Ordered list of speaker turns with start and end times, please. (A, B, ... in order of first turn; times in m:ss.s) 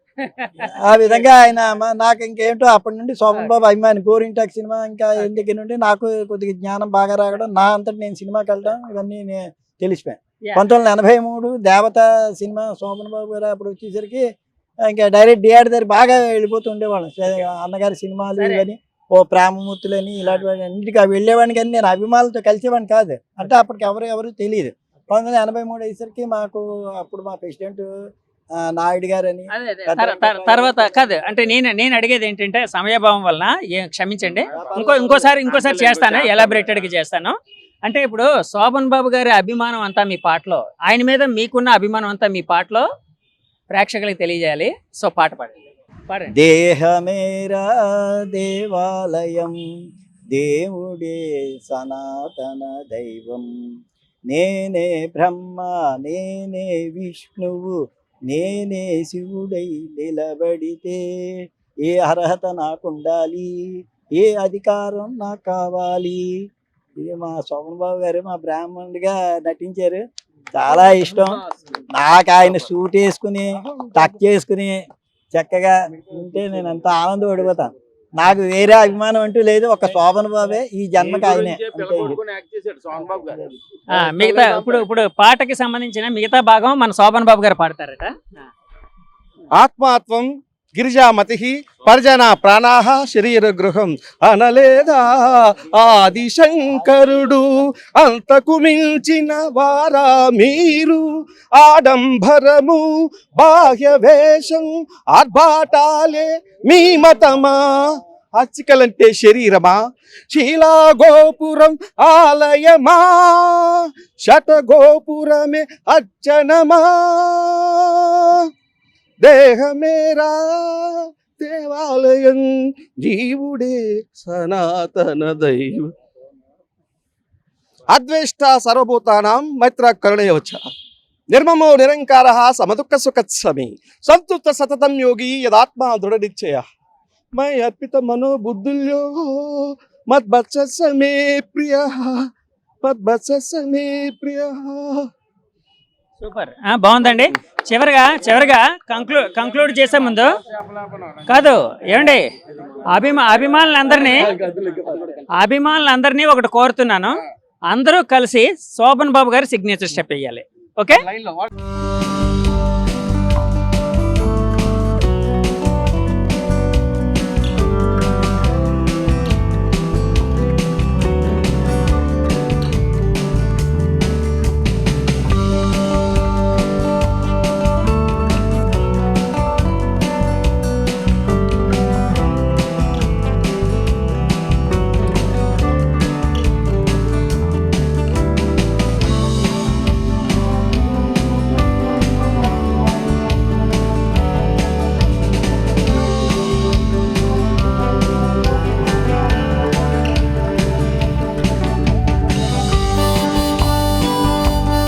0:00.2-0:00.7 A
0:00.6-0:14.2 B
0:14.9-0:27.9 B
0:18.4-0:18.6 A
0:28.6-0:31.1 B
0:29.5-0:42.8 A
0:34.5-0:36.4 B
0:43.7-0:46.3 A
0:46.3-0:49.6 B
0:50.3-0:53.5 B
0:54.3-0:57.8 B
0:58.3-1:06.3 B
1:07.0-1:22.2 B
1:21.2-1:23.2 C
1:23.9-1:28.4 A
1:24.2-1:24.7 C
1:29.6-1:41.0 C
1:41.6-1:47.6 C
1:48.4-1:49.8 C
1:50.3-1:58.5 C
1:59.2-2:02.5 C
2:03.0-2:05.9 C
2:07.9-2:10.6 C
2:11.3-2:16.6 C
2:17.4-2:22.3 C
2:22.8-2:25.1 C
2:26.2-2:30.4 A
2:31.2-2:32.3 A
2:32.8-2:34.4 A
2:34.6-2:34.8 C
2:35.3-2:41.1 A